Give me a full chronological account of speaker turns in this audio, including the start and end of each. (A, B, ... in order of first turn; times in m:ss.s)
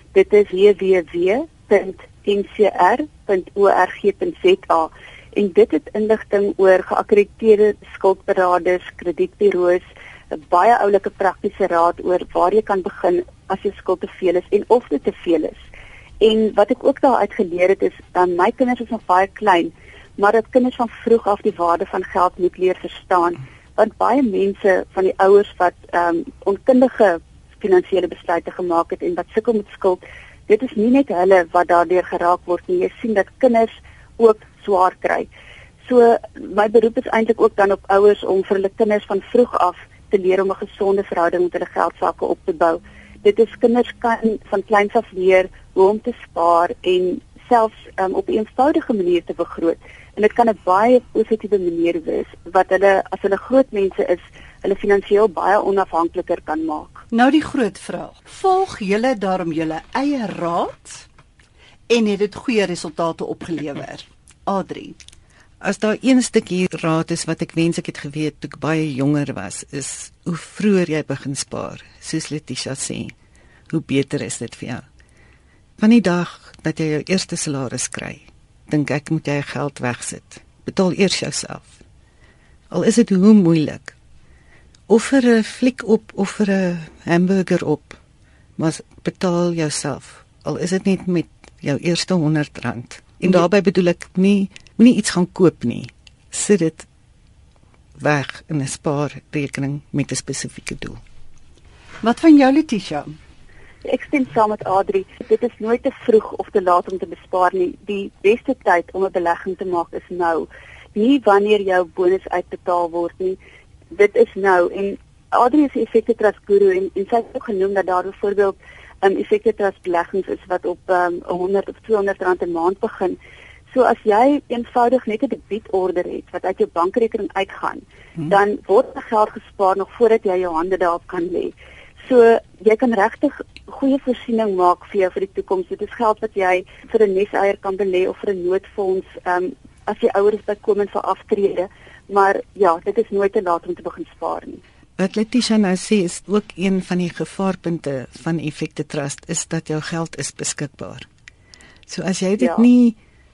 0:00.1-0:15.6 A
0:16.2-0:35.3 A
0:35.9-0:57.0 A
0:57.1-1:01.0 B
1:01.9-1:05.0 B
1:05.6-1:13.1 C
1:13.7-1:14.8 C
1:15.8-1:21.8 C
1:22.7-1:24.0 C
1:24.9-1:28.0 C
1:28.6-1:36.9 C
1:38.0-1:41.0 C
1:42.0-1:43.1 B
1:43.8-1:53.4 A
1:53.9-2:03.2 A
2:03.7-2:11.5 A
2:12.0-2:24.6 A
2:25.0-2:31.1 C
2:31.9-2:33.0 C
2:32.4-2:32.6 A